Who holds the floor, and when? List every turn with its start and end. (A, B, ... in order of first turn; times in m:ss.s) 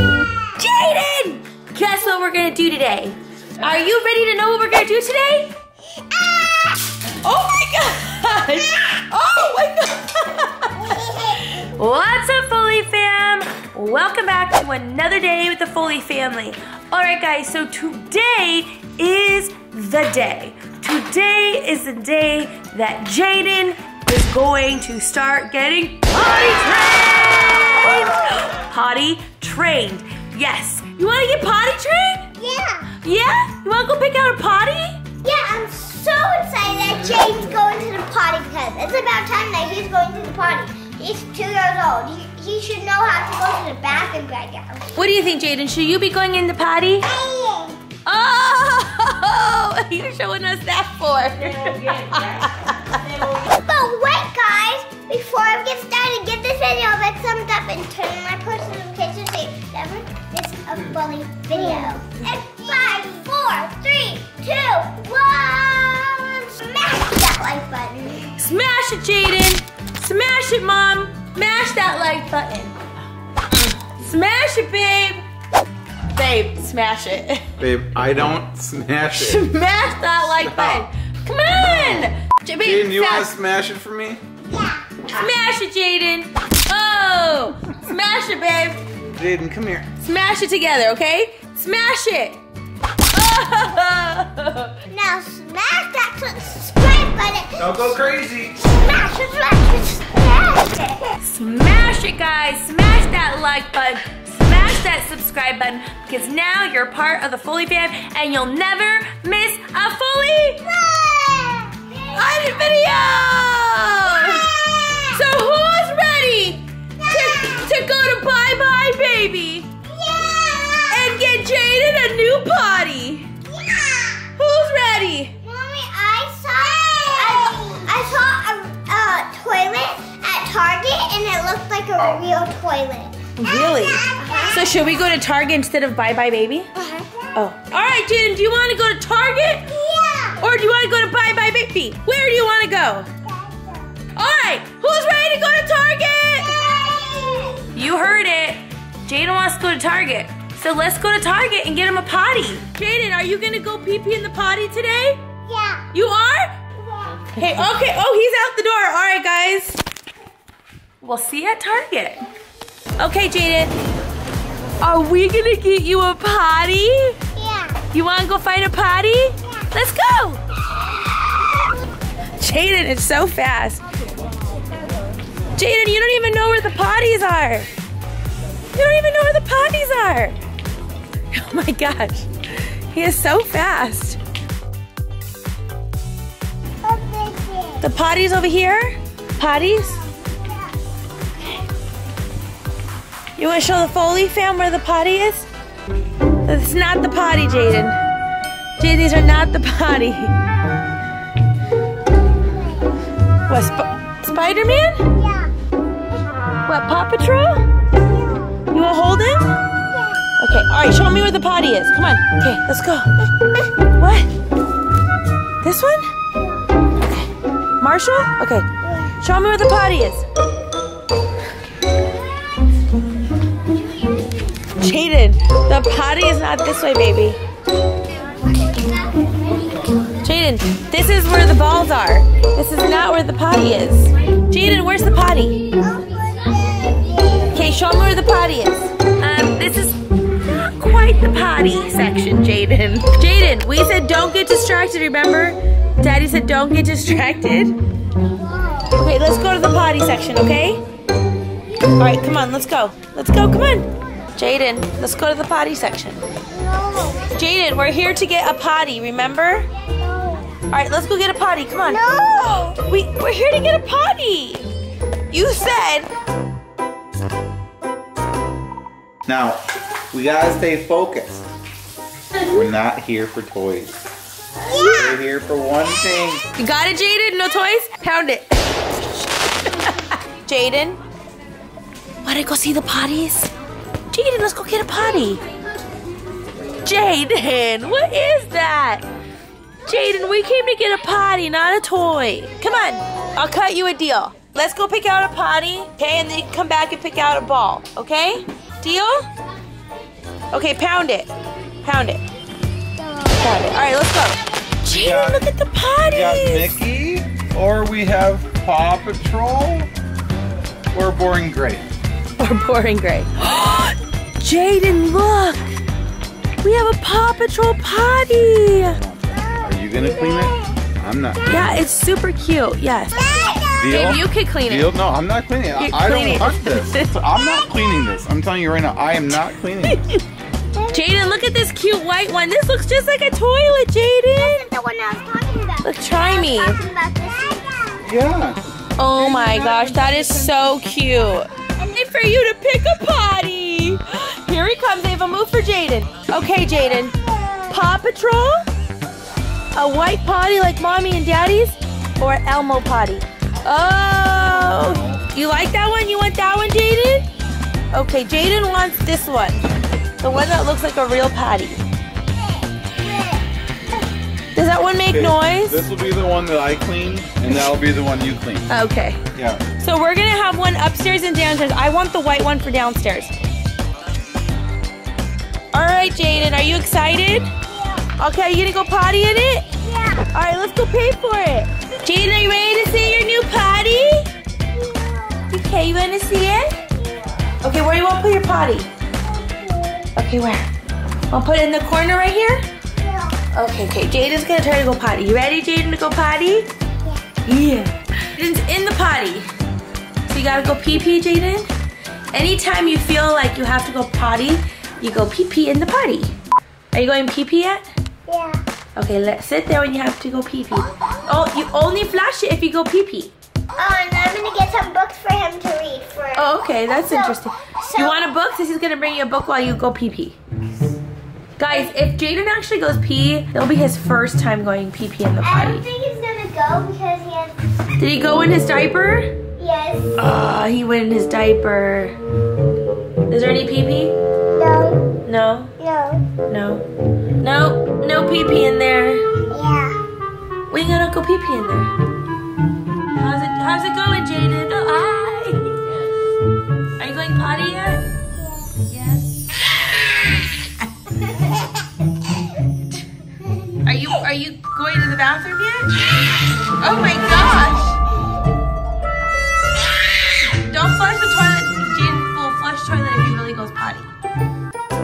0:00.6-0:05.5 A
0:06.0-0:06.8 B
0:07.2-0:32.3 A
0:10.8-0:11.6 B
0:27.8-0:28.3 B
0:32.4-0:32.9 B
0:33.0-0:35.0 A
0:35.2-0:44.9 B
0:45.0-0:47.1 A
0:47.0-0:47.8 B
0:48.1-0:53.3 A
0:53.5-1:08.3 B
1:08.4-1:12.8 A
1:13.5-1:15.2 A
1:16.1-1:17.5 A
1:17.6-1:19.5 C
1:19.1-1:23.3 A
1:20.3-1:20.9 C
1:21.5-1:22.1 C
1:22.6-1:24.2 C
1:24.5-1:24.8 B
1:25.1-1:28.8 A
1:29.1-1:29.9 C
1:30.0-1:32.4 A
1:33.1-1:34.8 A
1:34.9-1:37.7 B
1:37.6-1:38.6 C
1:38.6-1:41.1 B
1:41.2-1:50.7 A
1:50.7-1:52.4 B
1:52.1-1:59.7 A
1:54.2-1:55.2 B
1:57.0-1:57.7 B
1:59.8-2:01.2 B
2:00.9-2:03.3 A
2:03.5-2:04.3 B
2:04.4-2:05.4 A
2:05.4-2:14.8 B
2:07.2-2:07.7 A
2:13.4-2:16.7 A
2:16.8-2:17.3 B
2:17.3-2:19.7 A
2:19.7-2:20.4 B
2:20.4-2:23.1 A
2:23.2-2:24.0 B
2:24.2-2:26.5 A
2:26.4-2:27.7 B
2:27.7-2:35.2 A
2:35.4-2:35.9 B
2:35.9-2:36.6 A
2:36.8-2:37.3 B
2:37.3-2:39.8 A
2:41.0-2:42.2 A
2:43.0-2:43.7 A
2:44.8-2:47.2 A
2:47.4-2:47.8 B
2:47.9-2:50.4 A
2:52.4-2:53.8 A
2:55.6-2:57.7 A
2:58.7-3:00.4 A
3:01.3-3:04.2 A
3:06.8-3:07.8 B
3:07.8-3:10.0 A
3:10.1-3:10.8 B
3:13.4-3:15.5 A
3:16.4-3:18.0 A
3:18.8-3:20.3 A
3:23.5-3:25.1 A
3:25.1-3:25.5 B
3:26.7-3:27.6 A
3:28.2-3:28.5 B
3:28.7-3:29.5 A
3:30.4-3:33.1 A
3:34.0-3:34.3 A
3:35.6-3:36.1 A
3:37.0-3:37.3 A
3:37.8-3:38.7 A
3:38.8-3:39.1 B
3:39.2-3:40.2 A
3:44.8-3:47.4 A
3:50.2-3:55.6 A
3:55.8-3:57.6 B
3:57.5-4:07.8 A
4:08.3-4:08.9 B
4:08.9-4:10.8 A
4:12.0-4:16.2 A
4:16.5-4:17.3 B
4:17.3-4:19.7 A
4:19.9-4:20.6 B
4:20.7-4:22.0 A
4:21.9-4:22.8 B
4:22.8-4:24.7 A
4:25.3-4:26.1 A
4:29.3-4:31.5 C
4:32.4-4:34.0 C
4:34.7-4:35.2 B
4:34.7-4:36.4 C
4:36.6-4:38.8 A
4:39.6-4:41.0 A
4:42.2-4:43.5 A
4:44.1-4:45.4 A
4:46.8-4:49.0 A
4:49.9-4:59.3 A
5:00.5-5:01.3 A
5:01.8-5:02.2 A
5:03.0-5:03.4 B
5:03.4-5:06.8 A
5:04.9-5:05.5 C
5:06.0-5:09.9 C
5:10.9-5:11.9 C
5:12.4-5:15.7 A
5:16.6-5:19.0 A
5:18.8-5:21.7 C
5:19.3-5:20.8 B
5:21.4-5:21.7 B
5:21.5-5:25.0 A
5:23.1-5:24.1 B
5:23.8-5:30.0 C
5:25.8-5:27.1 A
5:27.4-5:27.9 B
5:29.9-5:30.2 A
5:30.7-5:31.4 B
5:30.9-5:34.6 A
5:34.4-5:38.1 B
5:35.8-5:36.8 A
5:38.0-5:38.6 C
5:39.0-5:47.1 A
5:39.2-5:40.3 C
5:46.9-5:47.8 B
5:47.7-5:48.6 A
5:49.8-5:57.3 A
5:54.6-5:55.1 C
5:57.9-5:59.6 A
6:00.2-6:01.8 A
6:02.4-6:03.5 B
6:04.6-6:05.8 A
6:05.1-6:08.7 C
6:08.7-6:09.2 A
6:09.3-6:09.6 C
6:09.8-6:13.3 A
6:15.7-6:17.5 A
6:17.7-6:18.1 B
6:18.2-6:19.7 A
6:19.8-6:20.3 B
6:20.3-6:24.3 A
6:24.7-6:25.5 B
6:25.5-6:26.8 A
6:26.9-6:27.6 B
6:27.6-6:28.9 A
6:29.2-6:30.1 B
6:30.2-6:30.7 A
6:31.3-6:32.6 A
6:33.0-6:33.4 B
6:33.5-6:36.7 A
6:37.5-6:39.5 A
6:40.3-6:41.7 A
6:42.3-6:46.3 A
6:46.9-6:47.8 A
6:48.3-6:48.6 B
6:49.0-6:53.3 A
6:53.8-6:58.2 B
6:56.4-7:00.4 A
7:01.6-7:05.8 A
7:05.4-7:07.6 B
7:08.0-7:09.3 A
7:09.6-7:10.2 B
7:10.2-7:12.2 A
7:13.3-7:14.2 A
7:14.5-7:15.1 B
7:15.2-7:15.7 A
7:15.8-7:16.3 B
7:16.4-7:16.8 A
7:17.4-7:19.2 A
7:19.5-7:20.0 B
7:20.7-7:21.9 A
7:23.2-7:26.0 A
7:27.0-7:28.0 A
7:28.8-7:29.8 A
7:33.8-7:36.0 A
7:36.7-7:38.0 A
7:40.2-7:44.1 A